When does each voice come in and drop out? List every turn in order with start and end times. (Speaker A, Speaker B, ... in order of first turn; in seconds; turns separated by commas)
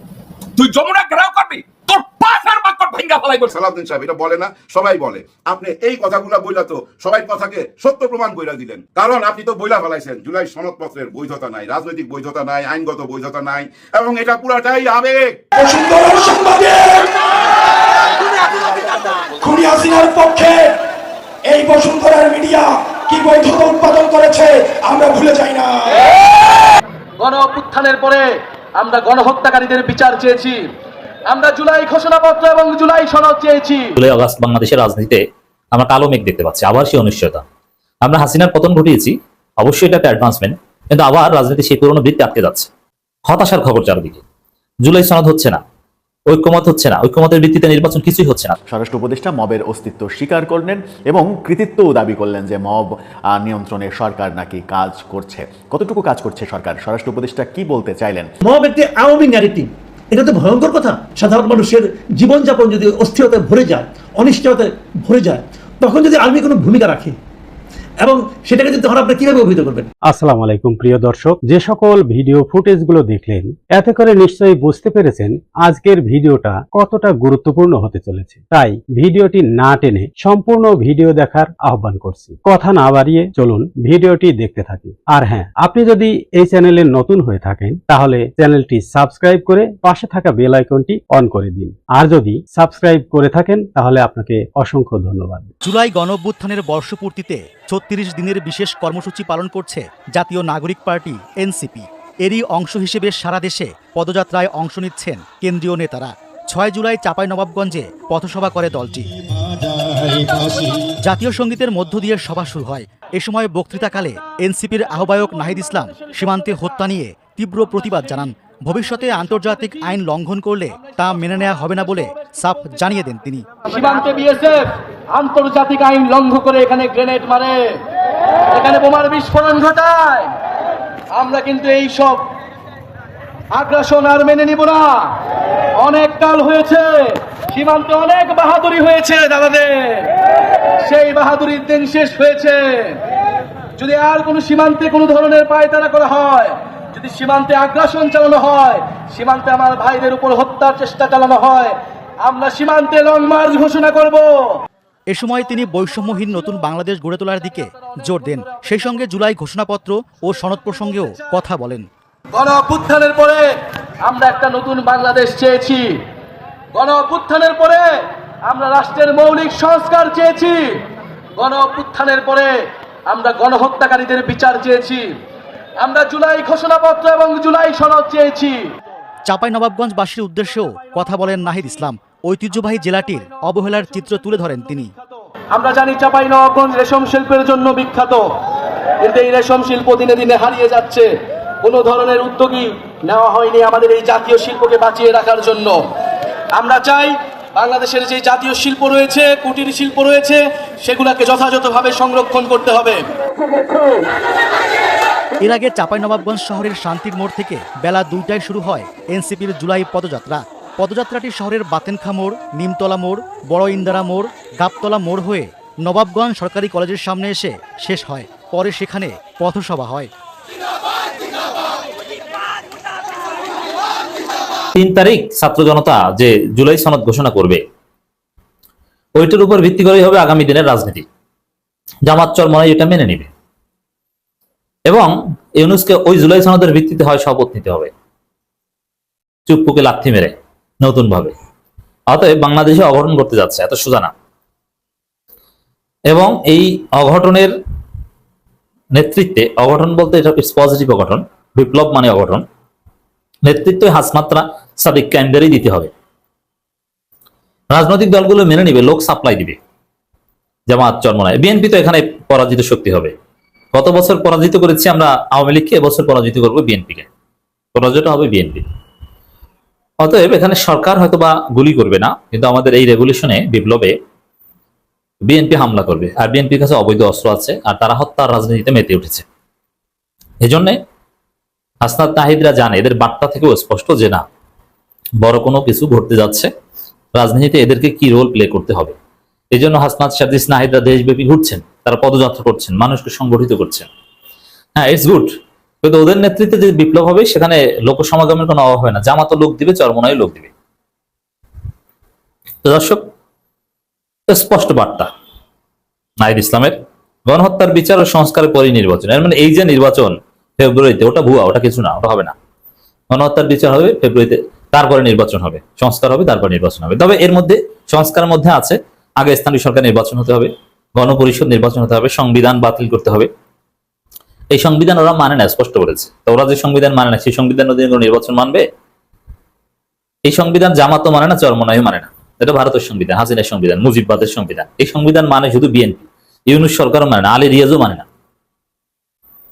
Speaker A: 0.6-3.5, Speaker B: 3.5-15.4, Speaker C: 15.5-17.1, Speaker C: 19.4-20.8, Speaker C: 21.5-26.1, Speaker D: 27.2-30.7, Speaker D: 31.3-33.9, Speaker E: 34.0-35.2, Speaker E: 35.7-37.5, Speaker E: 38.0-42.7, Speaker E: 43.2-44.2, Speaker E: 44.8-45.6, Speaker E: 46.3-48.6, Speaker F: 48.7-58.3, Speaker G: 58.4-67.2, Speaker G: 68.0-69.9, Speaker H: 70.0-95.5, Speaker I: 95.6-109.1, Speaker I: 110.9-123.5, Speaker D: 123.7-127.8, Speaker D: 128.5-130.3, Speaker D: 131.1-132.2, Speaker D: 133.5-135.2, Speaker D: 135.8-140.1, Speaker D: 140.8-143.0, Speaker D: 143.8-154.6, Speaker I: 155.1-161.8, Speaker D: 162.3-163.5, Speaker D: 164.0-166.0, Speaker D: 166.7-167.9, Speaker D: 168.5-170.8, Speaker D: 171.4-172.5, Speaker D: 173.1-175.1, Speaker D: 175.8-178.7, Speaker I: 179.3-184.9, Speaker D: 185.5-188.3, Speaker D: 189.0-191.1, Speaker D: 191.6-195.8, Speaker D: 196.6-203.0, Speaker I: 205.4-220.1, Speaker E: 224.7-227.6, Speaker E: 229.2-231.1, Speaker E: 232.1-233.3, Speaker E: 234.9-237.9, Speaker E: 239.5-241.3, Speaker E: 242.1-244.1, Speaker E: 246.1-247.5, Speaker E: 248.9-252.4, Speaker E: 253.4-255.9, Speaker E: 257.7-259.6, Speaker E: 260.7-263.1, Speaker E: 263.7-267.1, Speaker E: 267.8-268.6, Speaker E: 270.0-273.9, Speaker E: 275.3-279.2, Speaker E: 280.4-280.8, Speaker E: 281.8-284.2, Speaker E: 285.2-286.5, Speaker E: 287.1-289.0, Speaker E: 289.5-293.9, Speaker E: 294.8-295.3, Speaker E: 295.8-300.5, Speaker E: 302.6-303.0, Speaker E: 304.3-305.1, Speaker E: 306.2-312.3, Speaker E: 313.1-323.3, Speaker E: 324.5-328.6, Speaker E: 330.3-338.1